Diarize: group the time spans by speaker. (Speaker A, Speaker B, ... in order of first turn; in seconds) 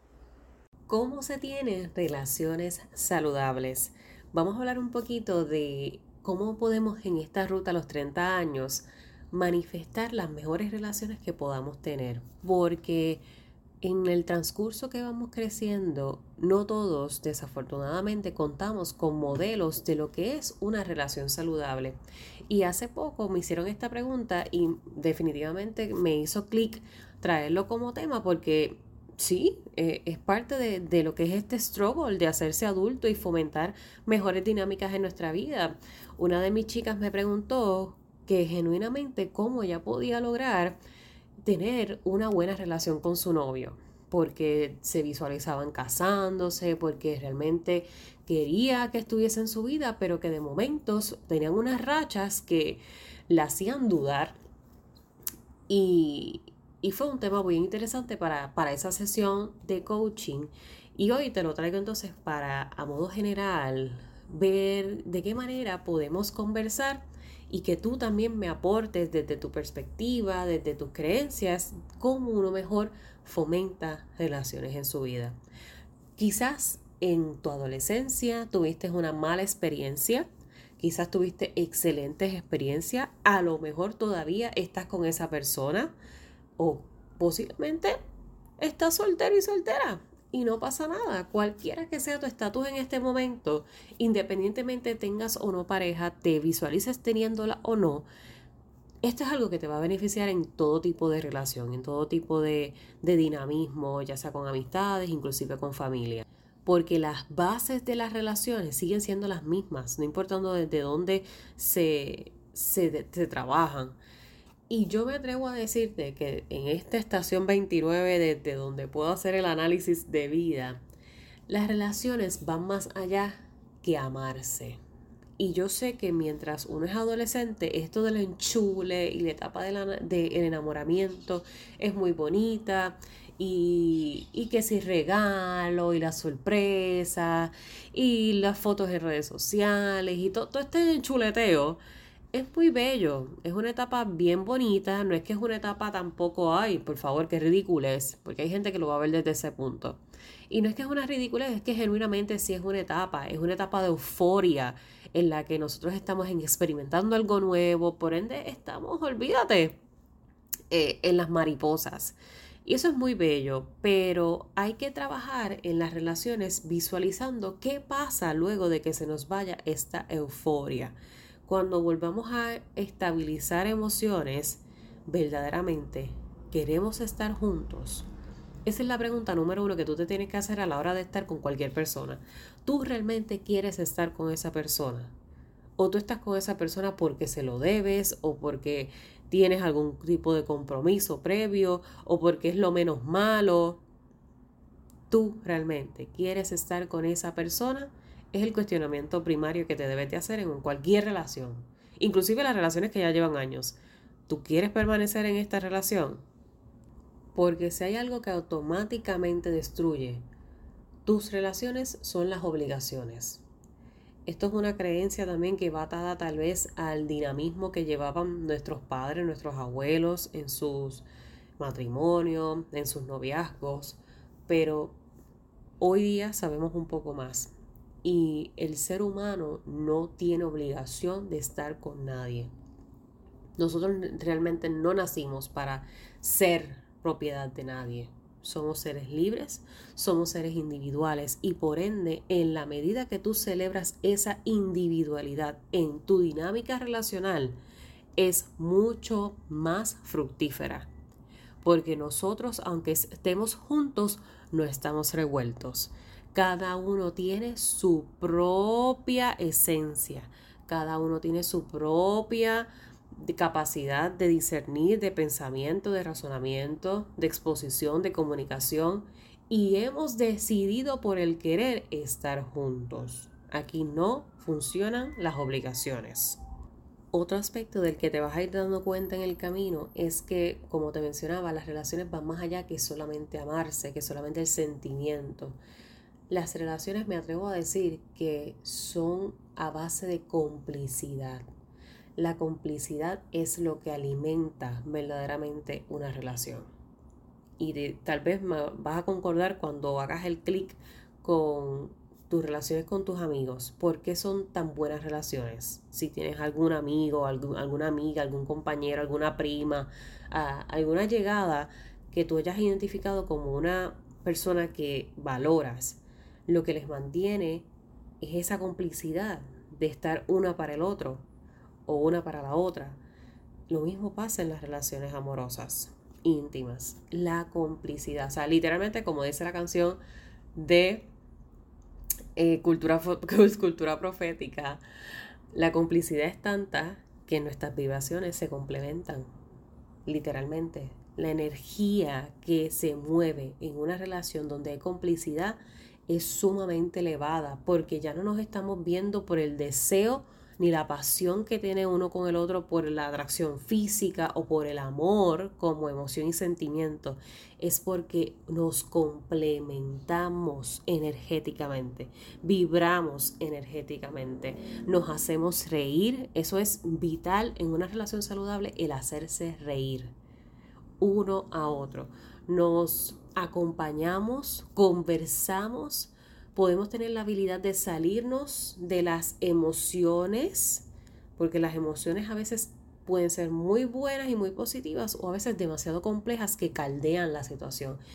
Speaker A: 0.9-13.2, 13.8-40.8, 41.4-54.4, 55.7-75.4, 76.2-80.3, 80.8-85.9, 86.6-88.0, 88.6-98.1, 99.0-114.0, 114.7-120.8, 121.5-124.8, 125.4-141.8, 142.3-159.8, 160.7-178.1, 178.7-185.1, 185.8-193.8, 195.1-206.2, 207.3-210.2, 211.0-213.4, 214.2-221.0, 221.6-225.0, 225.8-227.5, 228.0-232.5, 233.6-247.6, 248.2-250.9, 251.6-276.4, 277.1-285.6, 286.3-291.4, 292.1-296.7, 297.6-317.7, 318.2-321.2, 321.9-323.0, 323.7-330.0, 330.5-331.1, 332.4-334.8, 335.5-339.3, 340.1-370.1, 371.0-388.0